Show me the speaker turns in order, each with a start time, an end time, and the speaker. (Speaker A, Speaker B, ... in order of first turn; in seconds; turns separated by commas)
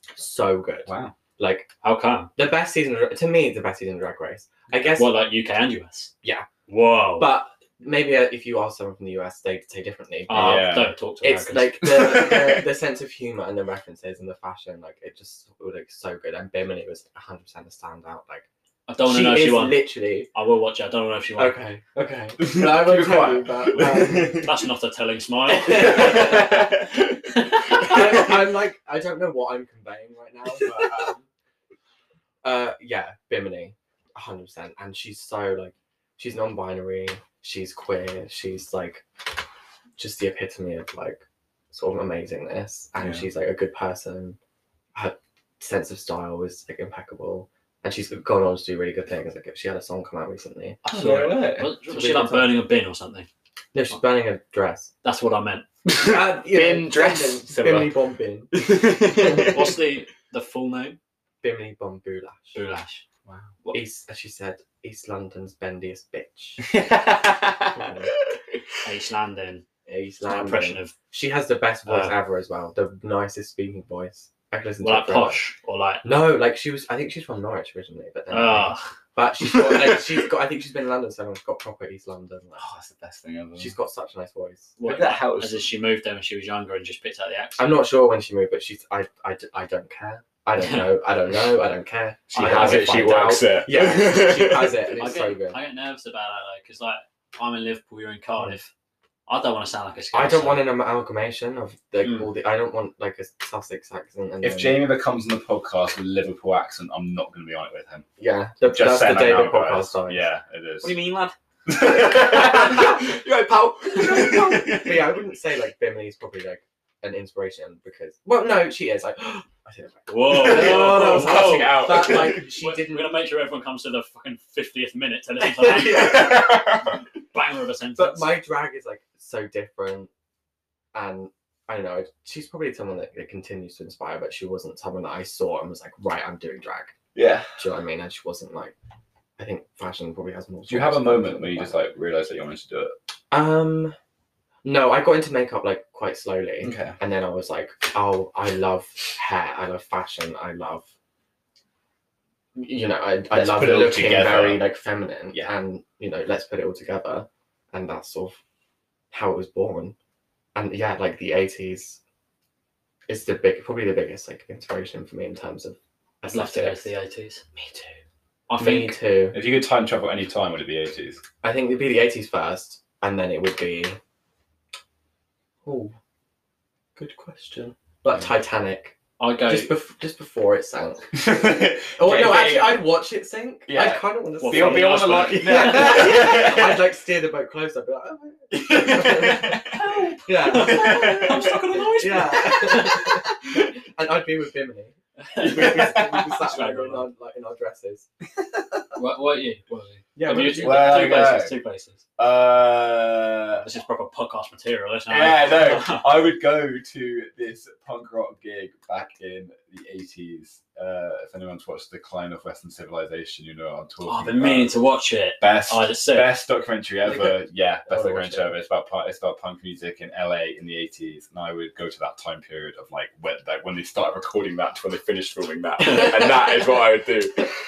Speaker A: 0.2-1.7, Speaker B: 0.9-1.1, Speaker C: 1.8-2.3, Speaker A: 2.4-5.1, Speaker C: 4.8-6.1, Speaker C: 6.7-7.3, Speaker A: 7.2-18.5, Speaker B: 10.3-10.9, Speaker C: 10.3-11.9, Speaker B: 11.8-12.7, Speaker C: 18.9-21.6, Speaker A: 19.1-20.3, Speaker A: 21.4-24.5, Speaker B: 22.4-24.6, Speaker C: 24.3-26.5, Speaker A: 25.5-26.7, Speaker B: 25.7-28.3, Speaker C: 27.5-28.0, Speaker A: 27.7-31.3, Speaker A: 32.4-39.0, Speaker A: 40.0-44.4, Speaker B: 43.0-43.3, Speaker A: 45.0-50.8, Speaker C: 50.8-53.3, Speaker B: 50.9-51.7, Speaker A: 51.9-52.6, Speaker A: 53.7-54.9, Speaker C: 55.0-55.6, Speaker B: 55.9-58.0, Speaker A: 56.0-58.5, Speaker B: 58.5-59.8, Speaker A: 59.1-59.6, Speaker C: 59.5-61.0, Speaker A: 61.4-62.6, Speaker C: 62.5-63.0, Speaker B: 63.3-63.5, Speaker A: 63.7-66.6, Speaker B: 66.6-68.6, Speaker A: 67.8-68.1, Speaker C: 68.8-69.6, Speaker A: 69.9-75.4, Speaker C: 70.3-71.0, Speaker C: 71.9-72.2, Speaker C: 74.8-76.0, Speaker A: 76.0-82.7, Speaker C: 78.3-78.9, Speaker B: 79.4-80.2, Speaker B: 82.6-83.7, Speaker A: 83.6-84.8, Speaker C: 84.8-87.6, Speaker B: 84.8-85.7, Speaker A: 87.6-95.6, Speaker C: 90.6-90.9, Speaker B: 92.3-94.9, Speaker C: 92.3-93.4, Speaker C: 95.0-98.7, Speaker C: 99.3-100.7, Speaker A: 100.1-104.9, Speaker C: 102.0-102.3, Speaker B: 104.4-108.1, Speaker A: 108.2-110.3, Speaker B: 108.7-111.0, Speaker C: 110.8-111.3, Speaker B: 111.7-115.2, Speaker A: 112.3-112.9, Speaker A: 114.0-123.2, Speaker C: 120.1-126.6, Speaker B: 120.3-122.5, Speaker B: 125.4-127.0, Speaker A: 125.9-126.3, Speaker C: 127.3-128.4, Speaker A: 128.0-130.1, Speaker A: 130.9-136.9, Speaker B: 137.2-137.6, Speaker A: 137.6-138.7, Speaker A: 139.4-141.8, Speaker B: 140.7-142.9, Speaker A: 143.3-144.0, Speaker A: 144.6-150.9, Speaker B: 146.6-147.0, Speaker A: 152.6-158.4, Speaker B: 153.3-154.7, Speaker A: 159.1-159.9, Speaker A: 160.6-162.0, Speaker A: 163.1-166.9, Speaker C: 166.3-167.4, Speaker A: 167.6-167.9, Speaker C: 168.5-169.0, Speaker A: 168.6-169.4, Speaker B: 169.3-171.2, Speaker A: 171.4-174.0, Speaker A: 175.7-175.9, Speaker A: 177.0-181.2, Speaker C: 179.2-179.7, Speaker B: 181.1-182.9, Speaker A: 182.0-191.4, Speaker B: 183.7-186.9, Speaker C: 184.4-186.3, Speaker B: 188.5-191.8, Speaker C: 189.8-193.2, Speaker A: 192.0-198.1, Speaker C: 195.2-197.1, Speaker B: 195.4-196.5, Speaker B: 198.4-198.8, Speaker C: 199.0-202.0, Speaker A: 200.2-201.3, Speaker B: 200.6-201.5, Speaker B: 202.2-203.7, Speaker C: 203.6-206.1, Speaker B: 205.1-214.7, Speaker C: 214.1-216.3, Speaker B: 215.4-227.5, Speaker A: 217.9-218.5, Speaker C: 225.8-226.6